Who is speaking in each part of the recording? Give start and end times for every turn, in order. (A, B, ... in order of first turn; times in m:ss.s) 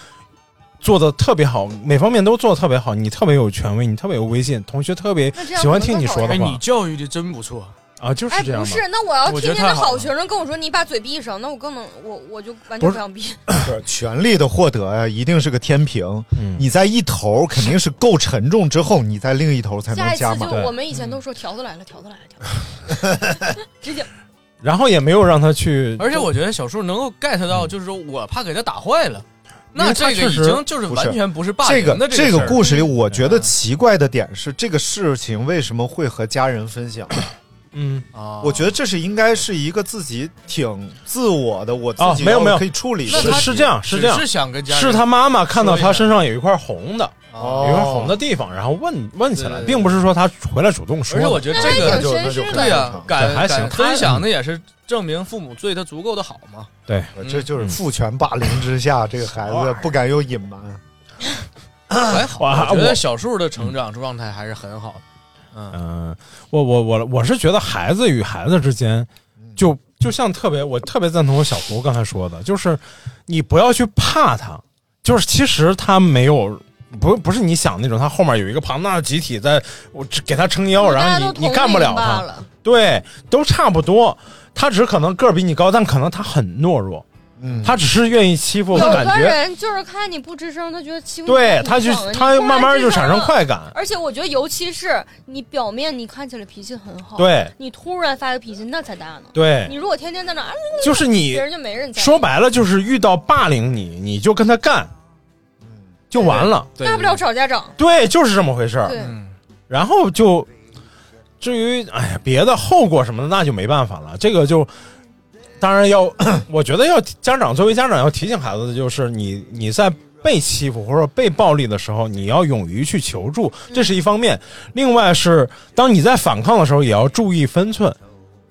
0:00.8-0:06.6 A
0:05.3-0:06.4 B
0:06.3-0:07.8 C
0:08.0-0:08.8 A
0:08.3-0:13.4 B
0:09.2-0:10.1 C
0:13.6-0:20.6 D
0:16.4-0:16.6 A
0:19.9-0:22.6 B
0:20.5-0:20.8 A
0:20.9-0:21.2 C
0:23.7-0:24.1 B
0:24.6-0:26.3 A
0:26.0-0:32.6 C
0:29.8-0:30.6 A
0:30.8-0:37.1 D
0:32.6-0:33.0 B
0:33.2-0:33.5 C
0:37.7-0:38.1 A
0:38.1-0:38.7 C
0:38.4-0:43.7 D
0:42.0-0:51.9 A
0:43.1-0:46.1 C
0:47.3-0:47.9 C
0:47.4-0:48.2 D
0:49.3-0:50.0 C
0:51.1-0:57.5 C
0:51.5-0:53.0 B
0:51.6-0:53.1 D
0:53.2-0:54.2 A
0:56.9-0:57.8 A
0:57.2-1:00.8 D
1:02.0-1:05.0 C
1:02.4-1:03.0 A
1:05.7-1:27.0 A
1:20.8-1:22.5 B
1:27.4-1:27.8 D
1:27.6-1:29.4 A
1:28.7-1:42.2 B
1:31.3-1:33.7 A
1:37.2-1:37.5 A
1:39.3-1:39.7 A
1:40.8-1:44.9 A
1:46.1-1:46.7 A
1:46.2-1:47.8 B
1:46.2-1:47.2 C
1:47.8-1:49.0 A
1:48.8-1:49.2 B
1:48.9-1:49.3 C
1:49.7-1:50.5 A
1:51.4-1:54.7 A
1:55.6-2:08.0 A